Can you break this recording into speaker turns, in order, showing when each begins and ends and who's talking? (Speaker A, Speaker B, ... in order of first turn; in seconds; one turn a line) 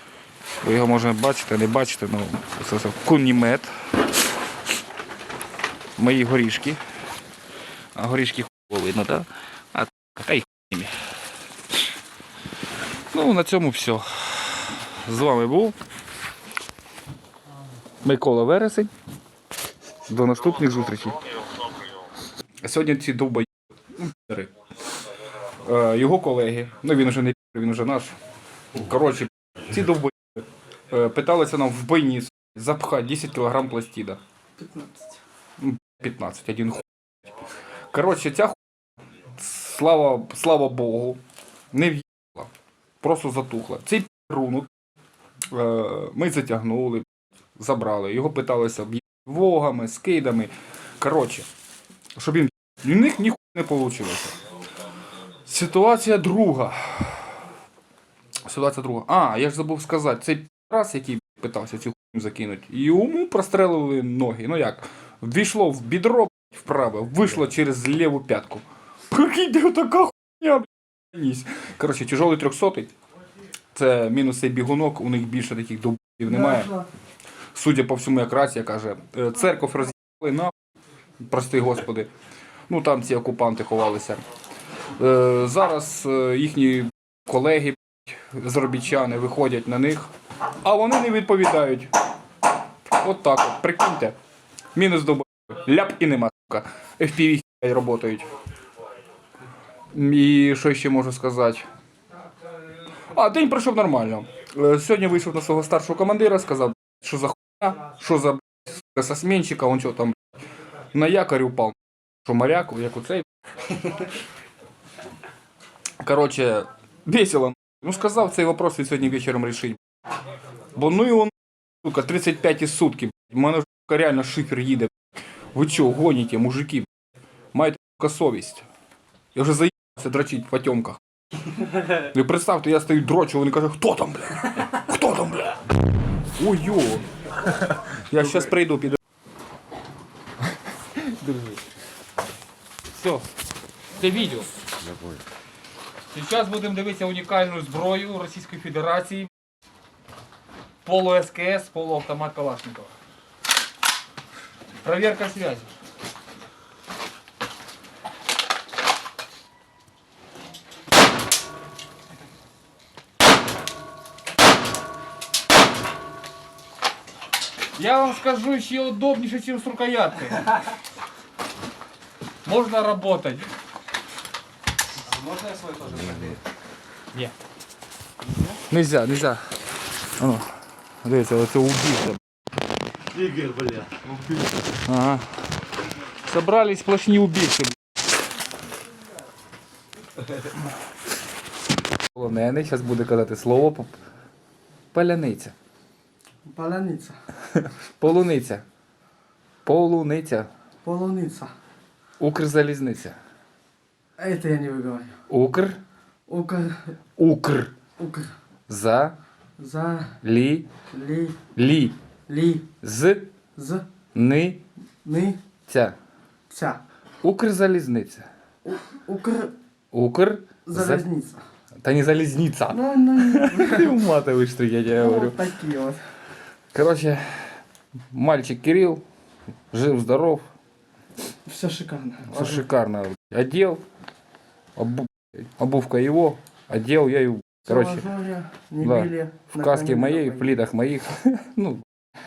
Speaker A: 0.6-3.7
Speaker A: 6.0-6.8
Speaker A: 7.9-10.9
Speaker A: 13.1-15.8
Speaker A: 18.0-18.9
Speaker A: 20.1-21.3
Speaker A: 22.6-24.5
Speaker A: 25.6-28.1
Speaker A: 28.7-34.2
Speaker B: 34.6-35.1
Speaker A: 35.6-38.6
Speaker A: 39.3-41.2
Speaker A: 41.7-42.5
Speaker A: 43.0-44.7
Speaker A: 45.5-47.0
Speaker A: 47.6-51.5
Speaker A: 52.2-54.4
Speaker A: 55.5-57.4
Speaker A: 58.4-72.9
Speaker A: 73.7-76.7
Speaker B: 76.3-76.9
Speaker A: 77.5-80.5
Speaker A: 81.2-82.1
Speaker A: 82.7-84.2
Speaker A: 85.0-90.1
Speaker A: 90.6-91.9
Speaker A: 92.9-94.1
Speaker A: 94.7-98.3
Speaker A: 99.9-101.7
Speaker A: 103.1-110.2
Speaker A: 110.9-113.2
Speaker A: 116.0-119.8
Speaker A: 120.7-124.9
Speaker A: 125.5-126.9
Speaker A: 127.5-128.7
Speaker A: 129.3-131.0
Speaker A: 131.9-135.6
Speaker A: 136.4-137.0
Speaker A: 137.8-139.0
Speaker A: 140.9-141.6
Speaker A: 142.9-143.2
Speaker A: 144.0-144.5
Speaker A: 146.1-149.3
Speaker A: 150.8-152.9
Speaker A: 154.8-155.7
Speaker A: 167.8-170.6
Speaker A: 172.4-173.5
Speaker C: 175.2-176.4
Speaker A: 178.6-179.5
Speaker A: 180.2-180.4
Speaker A: 181.0-182.2
Speaker C: 183.3-184.1
Speaker A: 184.8-185.4
Speaker A: 186.2-187.8
Speaker A: 192.1-193.9
Speaker A: 194.9-195.5
Speaker B: 196.5-197.2
Speaker A: 197.5-198.6
Speaker A: 199.7-200.5
Speaker B: 200.8-201.5
Speaker A: 202.2-203.2
Speaker B: 204.2-205.1
Speaker A: 205.3-205.8
Speaker B: 206.3-206.9
Speaker A: 207.2-207.7
Speaker B: 208.0-208.3
Speaker A: 208.7-209.2
Speaker B: 209.6-210.2
Speaker A: 210.2-210.7
Speaker B: 210.9-211.4
Speaker A: 211.6-211.9
Speaker B: 212.3-212.7
Speaker A: 212.8-213.3
Speaker B: 213.6-213.8
Speaker A: 214.1-214.6
Speaker B: 215.0-215.4
Speaker A: 215.7-216.0
Speaker B: 216.5-216.8
Speaker A: 217.2-218.3
Speaker B: 218.6-219.5
Speaker A: 219.9-221.0
Speaker B: 220.6-221.4
Speaker A: 221.8-225.4
Speaker B: 222.7-223.9
Speaker B: 224.9-226.0
Speaker A: 226.7-227.6
Speaker A: 228.1-229.0
Speaker A: 229.7-230.4
Speaker B: 231.4-232.6
Speaker A: 232.3-233.8
Speaker A: 234.8-238.0
Speaker B: 237.7-240.5
Speaker A: 238.8-241.8